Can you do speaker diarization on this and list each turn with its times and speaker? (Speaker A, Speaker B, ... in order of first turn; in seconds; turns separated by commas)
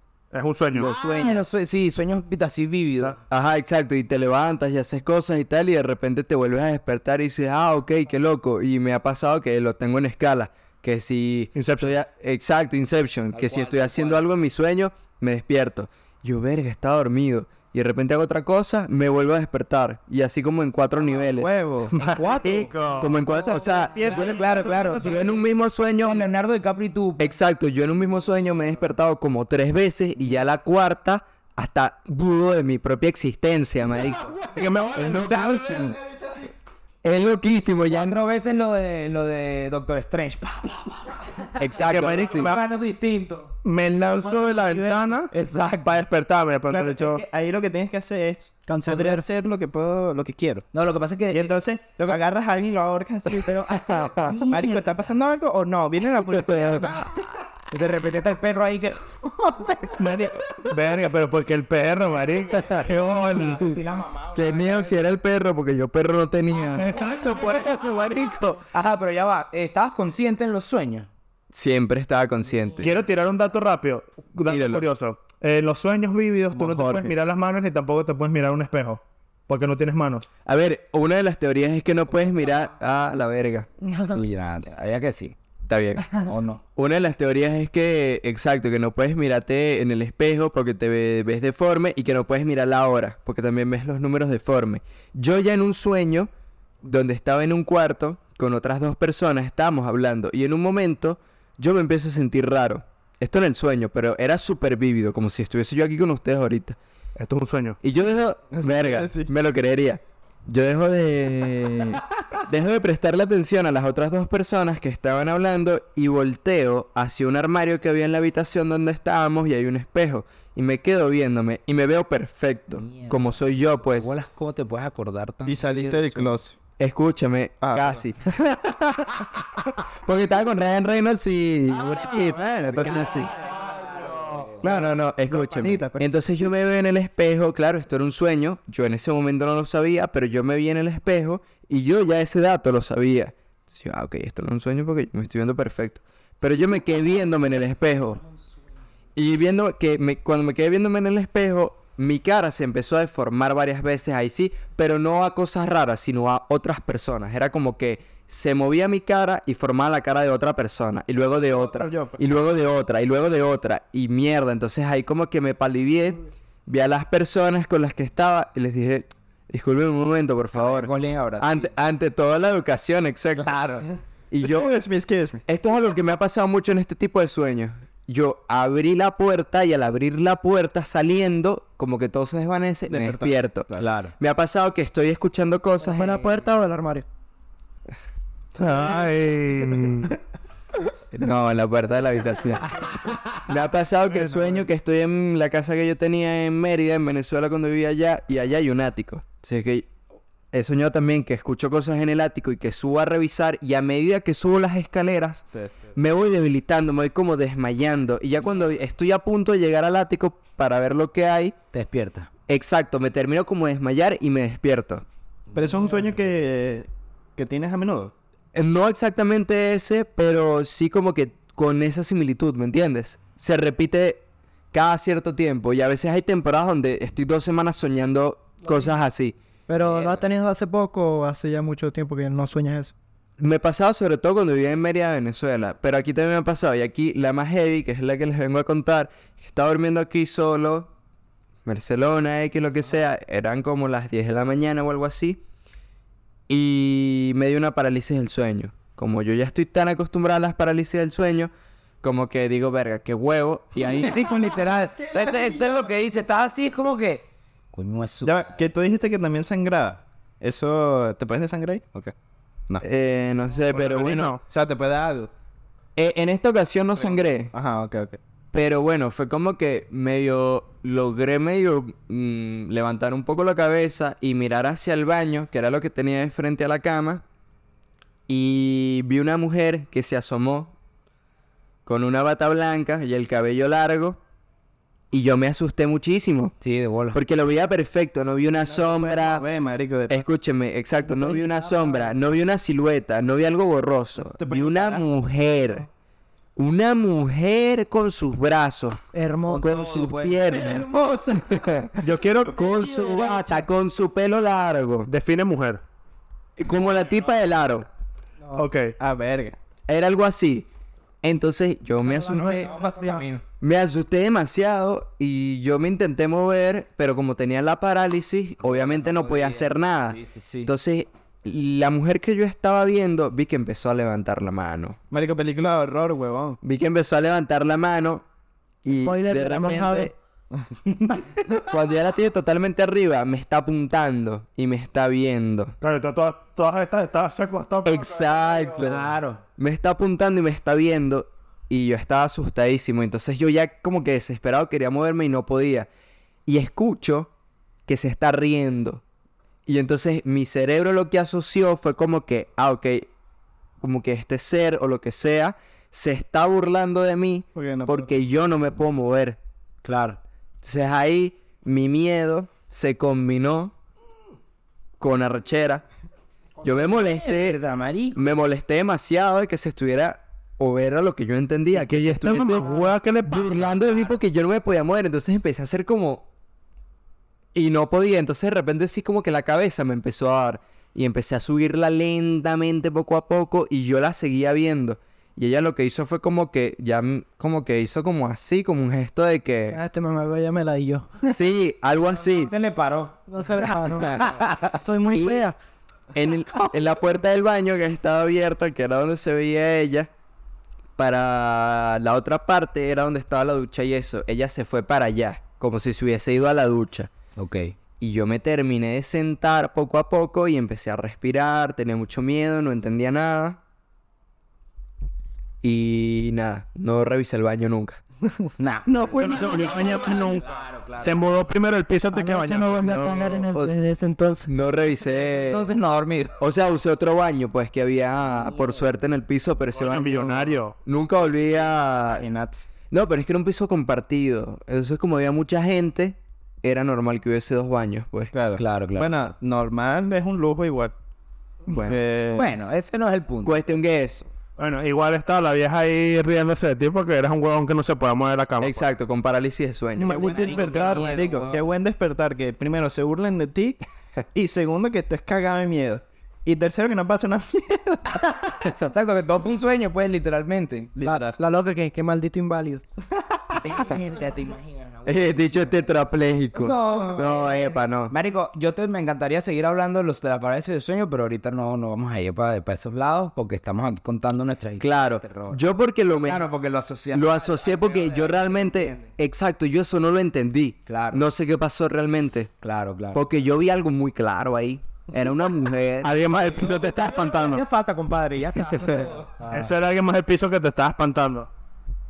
Speaker A: 0.3-0.9, Speaker B: 0.8-1.3, Speaker C: 0.8-3.2, Speaker B: 3.3-21.5, Speaker A: 11.6-11.9, Speaker C: 13.3-14.3, Speaker D: 21.2-22.0, Speaker A: 21.9-23.3, Speaker C: 21.9-22.7, Speaker B: 23.0-26.2, Speaker D: 23.4-25.0, Speaker C: 24.1-25.4, Speaker C: 26.0-27.3, Speaker B: 27.2-34.4, Speaker A: 34.4-36.0, Speaker B: 35.0-36.0, Speaker B: 37.0-38.1, Speaker C: 37.9-43.5, Speaker B: 41.6-42.5, Speaker A: 41.9-42.6, Speaker A: 43.6-45.3, Speaker E: 44.6-45.1, Speaker C: 45.3-46.0, Speaker A: 45.8-47.2, Speaker D: 46.7-50.7, Speaker E: 48.7-49.2, Speaker C: 50.7-52.2, Speaker D: 51.3-57.2, Speaker C: 53.4-54.9, Speaker B: 53.9-54.4, Speaker B: 56.4-57.0, Speaker C: 57.7-59.1, Speaker A: 59.9-63.8, Speaker C: 63.2-65.0, Speaker B: 64.3-66.9, Speaker A: 66.8-68.5, Speaker C: 68.7-71.1, Speaker B: 71.5-73.0, Speaker A: 72.8-80.3, Speaker B: 74.5-74.9, Speaker B: 76.6-77.0, Speaker B: 80.5-83.7, Speaker E: 83.8-84.2, Speaker C: 84.1-85.4, Speaker B: 85.7-86.1, Speaker C: 86.3-86.6, Speaker B: 86.8-96.3, Speaker B: 96.8-106.8, Speaker A: 107.2-107.8, Speaker B: 107.8-124.2, Speaker D: 108.5-109.3, Speaker C: 122.8-123.3, Speaker C: 123.9-126.3, Speaker D: 125.5-126.6, Speaker B: 126.8-133.3, Speaker D: 127.6-128.1, Speaker D: 132.2-133.3, Speaker C: 133.7-134.6, Speaker B: 134.6-148.2, Speaker D: 134.6-136.0, Speaker B: 149.2-173.5, Speaker D: 161.4-162.2, Speaker C: 170.6-171.7, Speaker C: 173.4-173.9, Speaker B: 174.3-174.7, Speaker D: 174.4-175.4, Speaker B: 175.5-186.3, Speaker D: 182.9-183.9, Speaker C: 183.8-184.1, Speaker E: 185.8-187.1, Speaker A: 188.6-190.2, Speaker B: 191.1-199.9, Speaker B: 200.5-211.6, Speaker D: 205.5-205.9, Speaker C: 211.7-212.3, Speaker B: 212.5-215.1, Speaker C: 215.5-215.9, Speaker D: 215.5-218.1, Speaker B: 218.5-229.4, Speaker E: 229.7-232.9, Speaker C: 229.8-230.2, Speaker B: 233.4-240.9, Speaker B: 241.7-245.4, Speaker B: 246.5-251.5, Speaker B: 252.0-254.2, Speaker C: 253.8-258.6, Speaker D: 258.2-262.1, Speaker B: 262.8-264.4, Speaker A: 263.8-264.4, Speaker D: 263.9-265.3, Speaker B: 266.0-267.5, Speaker D: 267.5-268.2, Speaker B: 268.5-277.2, Speaker B: 278.3-280.7, Speaker B: 281.9-284.2, Speaker B: 285.1-286.6, Speaker C: 286.6-287.2, Speaker B: 287.1-289.4, Speaker D: 288.6-290.3, Speaker B: 290.1-295.9, Speaker D: 294.2-295.0, Speaker B: 296.6-299.0, Speaker E: 299.1-299.7, Speaker C: 299.5-300.4, Speaker B: 299.5-300.9, Speaker D: 300.5-301.6, Speaker B: 301.5-301.9, Speaker A: 302.0-302.6, Speaker B: 302.5-305.1, Speaker E: 302.6-303.6, Speaker A: 305.1-305.8, Speaker B: 306.6-307.9, Speaker A: 308.6-308.9, Speaker D: 309.0-309.6, Speaker B: 309.9-310.7, Speaker B: 311.2-312.7, Speaker E: 312.3-313.2, Speaker C: 312.3-313.4, Speaker B: 313.6-325.0, Speaker C: 318.6-320.7, Speaker D: 325.1-326.6, Speaker B: 326.6-328.2, Speaker B: 328.8-330.1, Speaker E: 329.0-330.1, Speaker B: 331.6-335.8, Speaker A: 335.8-338.4, Speaker B: 337.8-345.9, Speaker C: 338.8-339.4, Speaker B: 346.5-347.3, Speaker B: 347.9-349.0, Speaker B: 349.7-353.1, Speaker B: 353.8-359.4, Speaker D: 357.6-358.1, Speaker C: 359.8-360.2, Speaker B: 360.6-363.7, Speaker B: 365.0-365.9, Speaker B: 366.6-367.6, Speaker C: 367.0-368.2, Speaker B: 368.1-376.3, Speaker A: 371.8-373.6, Speaker B: 377.6-389.8, Speaker E: 389.7-391.2, Speaker B: 391.3-392.5, Speaker C: 392.3-393.2, Speaker E: 393.3-395.6, Speaker B: 393.9-394.4, Speaker C: 394.2-394.7, Speaker B: 395.1-395.4, Speaker B: 396.1-400.1, Speaker B: 401.0-407.1, Speaker C: 407.4-407.7, Speaker B: 408.0-413.6, Speaker B: 415.6-418.0, Speaker C: 418.6-421.3, Speaker A: 419.2-420.5, Speaker A: 421.0-423.1, Speaker E: 422.1-424.5, Speaker B: 422.9-423.8, Speaker B: 424.5-425.7, Speaker C: 425.5-426.4, Speaker B: 426.4-432.2, Speaker A: 429.8-430.8, Speaker C: 432.1-432.6, Speaker B: 432.9-438.3, Speaker D: 438.3-440.9, Speaker C: 438.6-439.1, Speaker B: 441.7-442.0, Speaker D: 441.9-442.5, Speaker C: 442.4-443.6, Speaker B: 443.4-444.3, Speaker A: 444.6-448.9, Speaker B: 448.6-450.4, Speaker E: 450.0-451.0, Speaker D: 450.0-453.8, Speaker C: 450.1-451.6, Speaker D: 454.3-458.5, Speaker C: 458.7-460.9, Speaker D: 461.0-461.4, Speaker E: 461.1-462.8, Speaker C: 463.6-465.8, Speaker B: 465.1-468.1, Speaker E: 466.6-467.4, Speaker C: 468.1-475.6, Speaker B: 474.8-476.4, Speaker C: 476.1-479.1, Speaker B: 477.1-482.5, Speaker C: 480.9-481.2, Speaker C: 482.6-483.2, Speaker B: 483.1-486.1, Speaker A: 486.0-487.6, Speaker C: 486.7-489.4, Speaker B: 488.7-489.0, Speaker A: 489.5-491.5